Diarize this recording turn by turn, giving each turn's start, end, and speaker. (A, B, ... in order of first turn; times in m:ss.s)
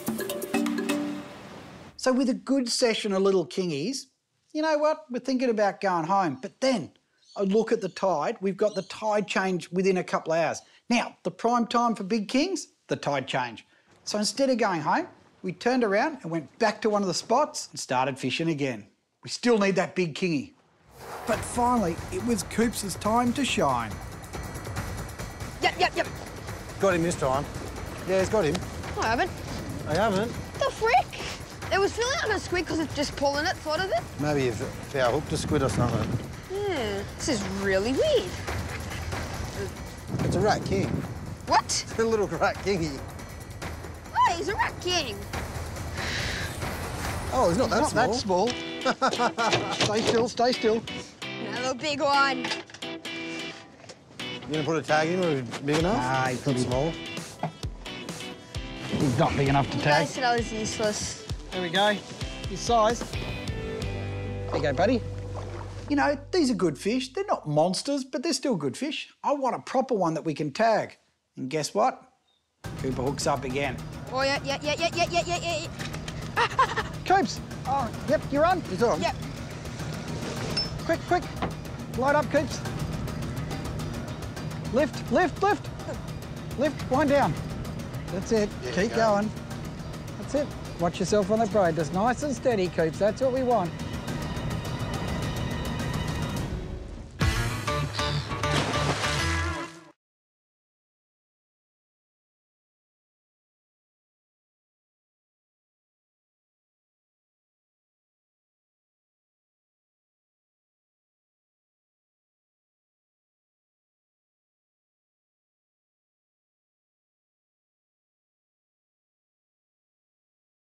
0:02.0-0:20.6 A
0:21.3-0:24.0 A
0:25.6-0:26.1 B
0:26.8-0:27.5 C
0:28.0-0:28.6 C
0:28.9-0:29.3 B
0:29.8-0:30.4 C
0:30.6-0:34.1 B
0:34.2-0:36.1 C
0:36.5-0:38.4 B
0:40.2-0:41.0 C
0:41.5-0:41.9 B
0:41.9-0:43.0 C
0:44.1-0:45.3 B
0:47.3-0:48.2 C
0:47.6-0:48.6 A
0:48.8-0:49.8 C
0:49.7-0:50.9 A
0:51.4-0:52.5 B
0:54.5-0:57.0 C
0:55.9-0:56.7 A
0:59.0-1:00.1 A
0:59.7-1:01.3 B
1:01.5-1:03.1 A
1:04.5-1:05.0 A
1:05.9-1:12.1 A
1:12.8-1:13.8 A
1:14.1-1:15.8 B
1:16.4-1:16.9 B
1:17.0-1:19.1 A
1:20.8-1:21.3 A
1:22.0-1:22.6 A
1:24.7-1:25.7 A
1:26.6-1:27.4 A
1:28.1-1:29.3 A
1:28.6-1:29.2 C
1:30.2-1:33.8 A